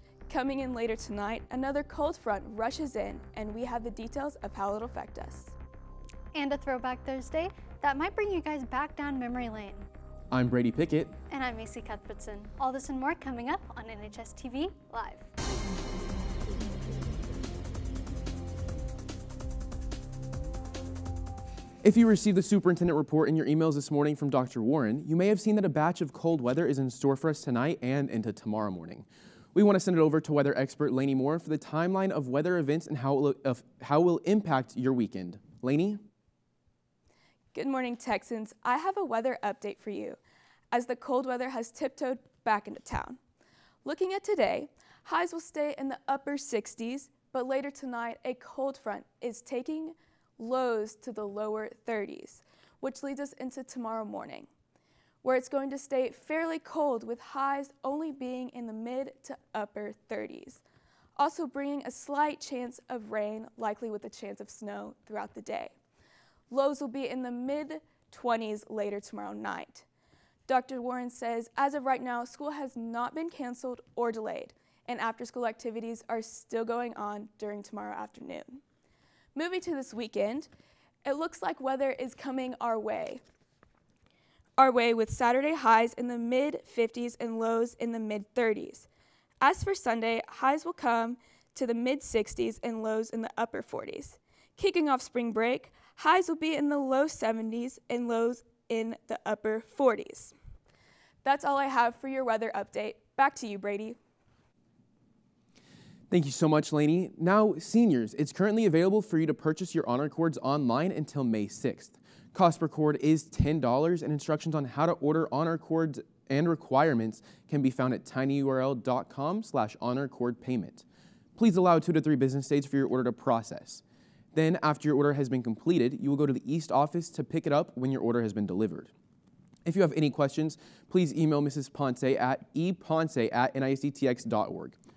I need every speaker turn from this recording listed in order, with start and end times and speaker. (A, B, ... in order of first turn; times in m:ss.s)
0:00.3-0:05.5 A
0:06.4-0:09.9 B
0:10.3-0:11.2 C
0:11.3-0:15.3 B
0:21.8-0:36.0 C
0:37.5-0:40.2 A
0:40.7-0:43.2 A
0:43.8-0:54.5 A
0:55.2-1:00.6 A
1:01.2-1:05.8 A
1:06.5-1:09.8 A
1:10.5-1:18.6 A
1:19.4-1:20.5 A
1:21.0-1:23.2 A
1:24.6-1:28.9 A
1:29.4-1:40.3 A
1:41.2-1:44.0 A
1:46.1-2:00.8 C
2:01.4-2:03.8 C
2:04.3-2:08.9 C
2:09.6-2:14.8 C